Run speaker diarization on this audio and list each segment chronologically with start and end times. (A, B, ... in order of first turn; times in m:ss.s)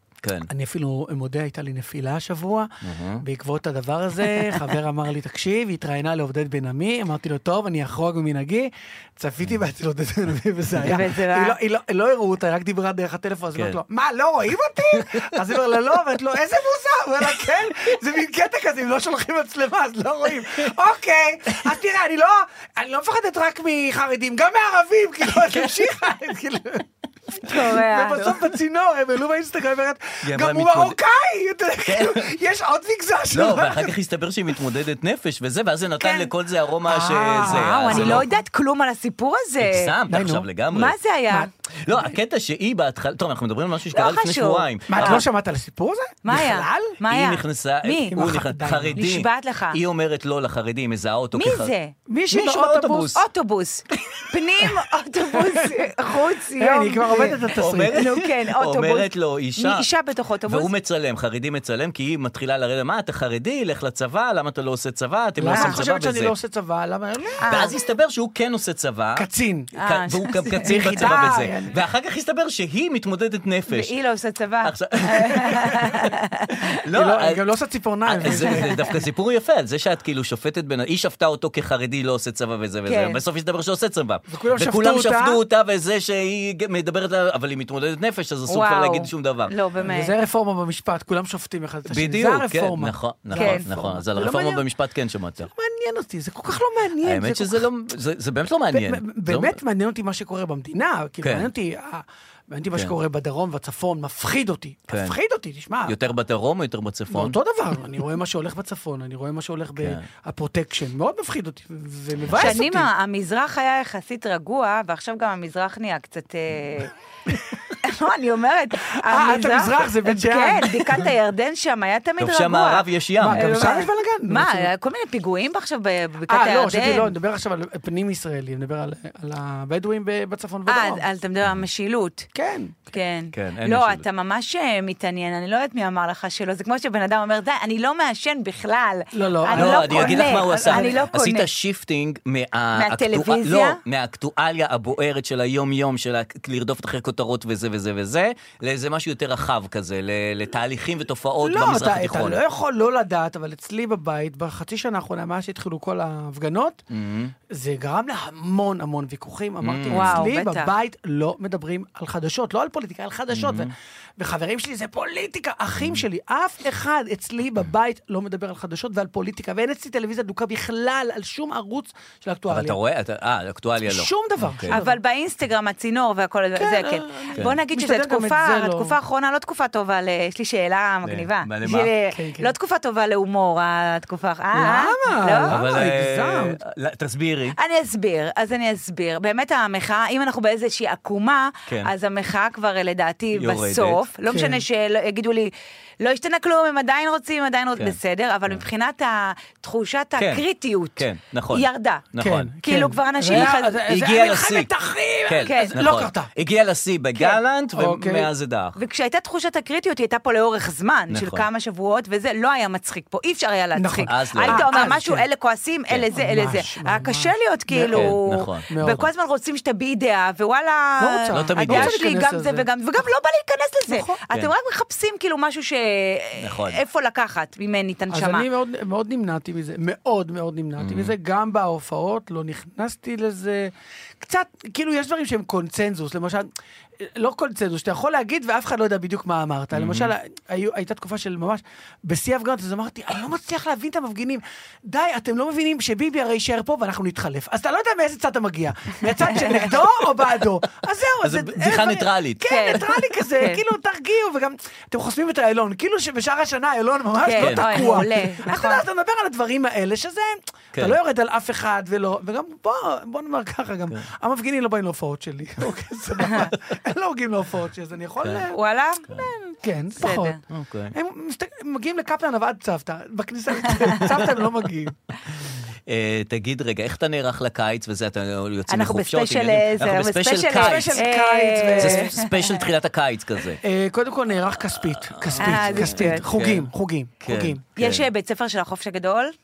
0:00.2-0:00.5 A
0:00.5-0:02.7 B
0:02.8-0:03.2 A
0:03.2-0:34.0 B
0:10.8-0:11.6 C
0:13.5-0:13.8 A
0:14.9-0:15.4 A
0:27.4-0:28.4 C
0:30.2-0:31.0 A
0:31.9-0:32.3 A
0:33.3-0:38.3 A
0:36.8-0:38.3 B
0:37.4-0:40.0 C
0:39.6-0:41.0 A
0:40.1-0:40.5 B
0:40.7-0:41.5 C
0:41.3-0:42.0 B
0:41.8-0:45.2 A
0:43.9-0:45.2 C
0:44.9-0:47.0 B
0:46.2-0:48.2 C
0:47.1-0:51.7 A
0:48.1-0:49.0 B
0:49.0-0:49.8 C
0:51.3-0:51.9 C
0:52.1-0:53.2 B
0:52.3-0:53.2 A
0:53.1-1:00.7 C
0:54.1-0:54.8 B
0:55.4-0:55.9 B
0:56.6-0:58.0 B
0:57.6-0:59.9 A
1:00.4-1:06.3 A
1:05.4-1:07.7 B
1:05.5-1:05.8 C
1:07.4-1:07.8 C
1:07.4-1:09.3 A
1:09.2-1:09.7 B
1:09.8-1:11.7 C
1:09.8-1:13.9 A
1:10.6-1:11.8 B
1:13.7-1:16.8 C
1:14.6-1:16.1 A
1:16.7-1:17.4 A
1:16.9-1:19.0 B
1:18.0-1:29.6 A
1:18.3-1:18.9 C
1:22.9-1:23.2 C
1:24.3-1:25.4 B
1:28.5-1:30.1 C
1:29.8-1:34.6 B
1:31.9-1:35.5 A
1:33.4-1:33.7 C
1:35.4-1:37.7 B
1:37.0-1:39.6 A
1:38.7-1:46.0 B
1:41.2-1:41.5 A
1:44.9-1:45.2 A
1:45.9-1:47.4 A
1:47.1-1:52.9 B
1:49.8-1:50.0 A
1:52.3-1:56.9 C
1:57.3-1:57.8 B
1:57.7-2:07.1 C
1:58.9-2:01.1 B
2:02.2-2:03.8 A
2:03.2-2:04.7 B
2:06.3-2:11.0 B
2:10.7-2:12.3 C
2:12.4-2:13.0 B
2:12.9-2:21.5 C
2:13.3-2:14.0 A
2:19.1-2:21.1 B
2:19.5-2:32.4 A
2:22.8-2:23.8 C
2:31.4-2:36.8 B
2:36.9-2:37.3 A
2:37.5-2:52.8 B
2:39.6-2:40.3 A
2:39.9-2:40.7 C
2:43.3-2:43.7 A
2:45.8-2:46.0 A
2:52.5-2:54.8 A
2:53.8-2:55.0 B
2:54.7-3:05.6 C
2:56.6-2:59.0 B
3:01.0-3:01.9 A
3:02.1-3:02.5 B
3:04.5-3:06.6 B
3:05.4-3:07.6 A
3:07.6-3:22.1 C
3:13.4-3:14.0 A
3:14.3-3:14.6 B
3:20.2-3:20.4 A
3:21.0-3:22.5 A
3:22.2-3:26.3 B
3:22.6-3:23.8 C
3:23.3-3:24.7 A
3:25.3-3:28.8 A
3:25.4-3:25.8 C
3:27.7-3:28.3 B
3:28.8-3:48.5 C
3:31.1-3:31.4 A
3:33.8-3:35.3 B
3:34.1-3:34.7 A
3:36.1-3:39.1 B
3:37.9-3:38.7 A
3:41.0-3:42.6 B
3:41.3-3:42.0 A
3:43.9-3:44.2 B
3:46.4-3:46.8 A
3:48.1-3:56.5 B
3:50.8-3:51.1 A
3:57.0-4:28.6 B
3:59.7-4:00.1 A
4:09.2-4:09.7 C
4:11.2-4:12.9 A
4:12.4-4:13.6 C
4:17.2-4:18.8 C
4:17.4-4:18.1 A
4:28.2-4:28.5 A
4:28.5-4:30.4 C
4:29.6-4:35.0 B
4:30.5-4:31.0 A
4:33.7-4:34.0 C
4:35.9-4:41.0 A
4:38.7-4:42.6 C
4:40.6-4:42.2 B
4:41.8-4:43.6 A
4:43.6-4:47.6 B
4:44.6-4:46.7 A
4:45.3-4:46.2 C
4:47.2-4:48.1 A
4:47.8-4:49.3 C